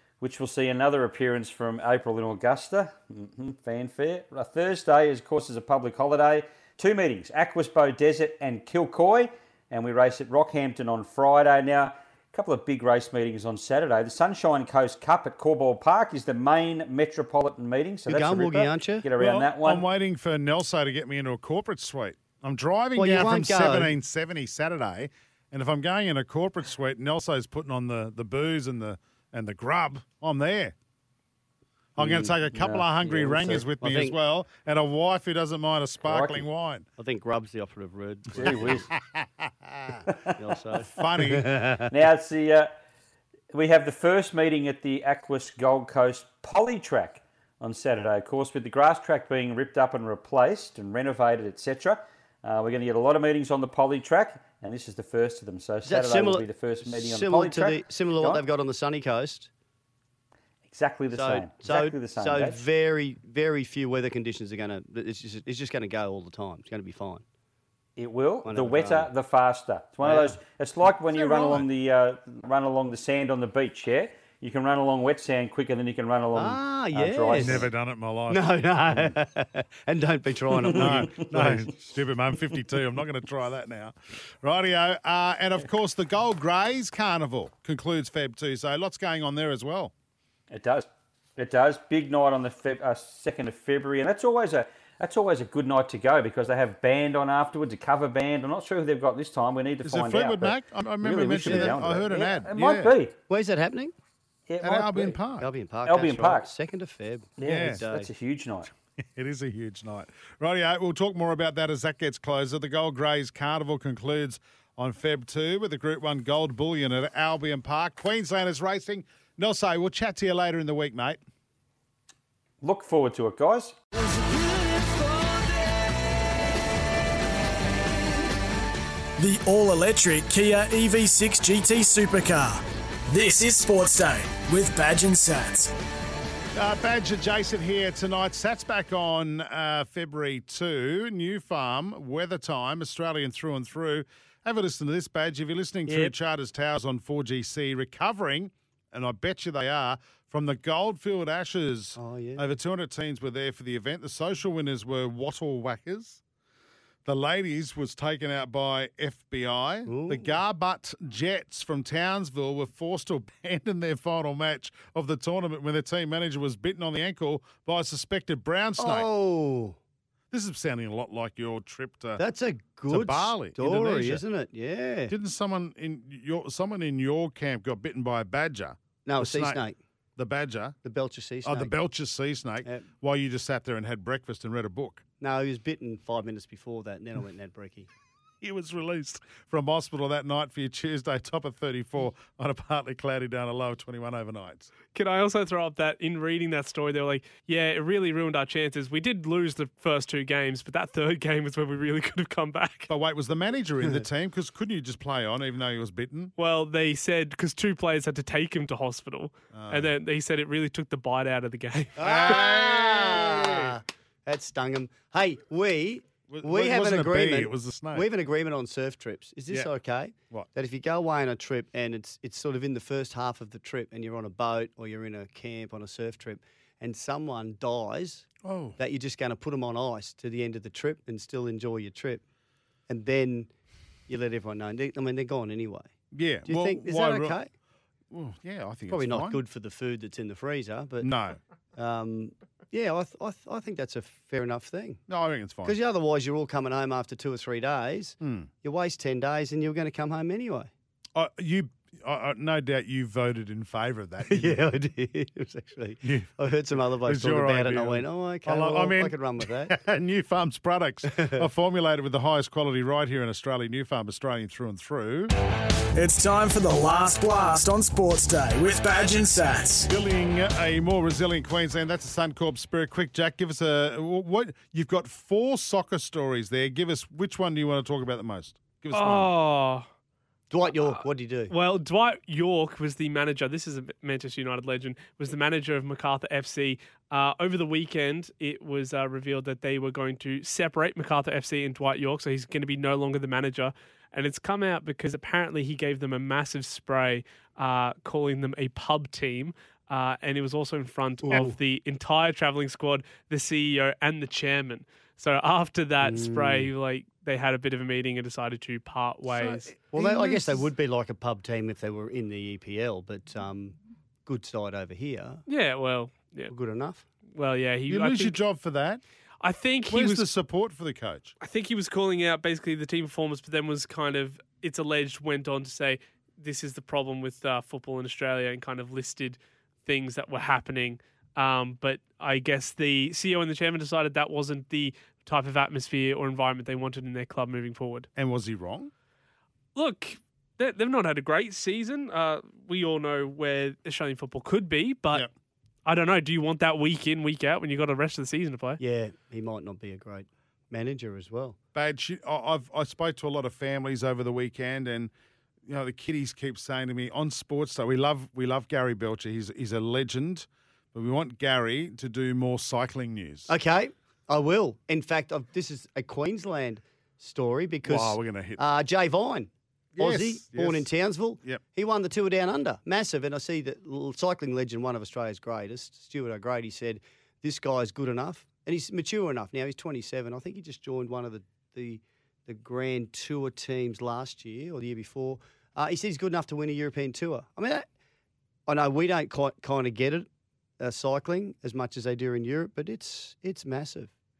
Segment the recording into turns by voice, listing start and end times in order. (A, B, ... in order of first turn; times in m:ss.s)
0:00.2-0:19.8 A
0:18.1-0:19.1 B
0:19.2-0:30.7 C
0:23.0-0:23.9 B
0:32.0-0:36.8 C
0:32.0-0:33.7 A
0:33.3-0:34.2 B
0:36.0-0:36.4 A
0:37.0-0:38.9 B
0:38.4-0:38.9 A
0:39.1-0:40.0 C
0:40.1-0:40.4 A
0:40.4-0:41.9 B
0:40.8-0:41.5 C
0:41.9-0:42.7 A
0:43.5-0:58.4 A
0:55.8-0:59.5 B
1:00.6-1:02.6 A
1:01.1-1:07.2 B
1:08.0-1:17.7 A
1:08.4-1:09.1 B
1:10.0-1:10.4 B
1:11.1-1:11.7 C
1:16.3-1:17.7 B
1:17.4-1:19.1 C
1:18.3-1:21.7 B
1:20.6-1:21.6 A
1:20.7-1:29.9 C
1:30.5-1:43.1 A
1:39.8-1:42.9 C
1:41.4-1:41.8 B
1:43.3-1:43.9 B
1:44.5-1:45.2 A
1:44.6-1:45.5 C
1:45.4-1:48.1 B
1:45.8-1:46.5 A
1:47.4-1:48.7 A
1:47.4-1:47.8 C
1:49.0-2:01.2 C
2:02.6-2:03.8 A
2:09.2-2:15.7 D
2:16.5-2:36.2 C
2:32.0-2:32.4 B
2:37.0-2:49.1 C
2:39.8-2:40.4 B
2:48.8-2:49.8 B
2:50.3-2:52.2 C
2:52.2-2:55.1 B
2:52.9-2:54.2 C
2:55.1-2:59.6 C
2:59.0-2:59.8 B
3:00.2-3:00.8 C
3:00.8-3:01.8 B
3:01.4-3:05.0 C
3:05.2-3:07.9 B
3:08.4-3:14.7 C
3:14.9-3:22.9 E
3:22.9-3:26.3 C
3:26.4-3:32.4 E
3:29.5-3:29.9 C
3:32.0-3:33.8 C
3:32.0-3:52.2 B
3:36.3-3:38.1 C
3:48.4-3:48.8 C
3:52.9-3:53.5 B
3:54.1-3:55.9 B
3:56.1-3:57.4 C
3:56.4-3:57.5 B
3:58.1-3:59.4 C
3:58.9-4:01.1 B
4:01.0-4:01.4 C
4:01.8-4:05.0 B
4:05.1-4:05.8 C
4:05.6-4:10.7 B
4:08.2-4:08.5 C
4:11.1-4:14.7 C
4:14.2-4:19.8 B
4:16.0-4:25.3 C
4:21.0-4:21.4 B
4:25.9-4:29.9 D
4:29.9-4:39.3 C
4:38.9-4:39.8 E
4:40.5-4:41.5 B
4:41.5-5:09.7 E
5:01.3-5:01.6 B
5:06.0-5:06.7 B
5:09.2-5:10.7 C
5:09.9-5:15.4 B
5:15.5-5:16.5 E
5:16.5-5:17.0 B
5:17.3-5:18.4 E
5:17.9-5:19.0 C
5:19.4-5:20.3 E
5:19.9-5:21.3 C
5:21.4-5:38.1 E
5:38.2-5:38.9 C
5:39.7-5:45.3 E
5:45.8-5:48.8 E
5:48.8-5:51.6 B
5:51.7-5:55.1 C
5:55.6-6:03.5 C
6:03.5-6:27.8 B
6:07.8-6:08.6 C
6:09.9-6:10.9 C
6:28.7-6:30.3 B
6:30.8-6:34.1 B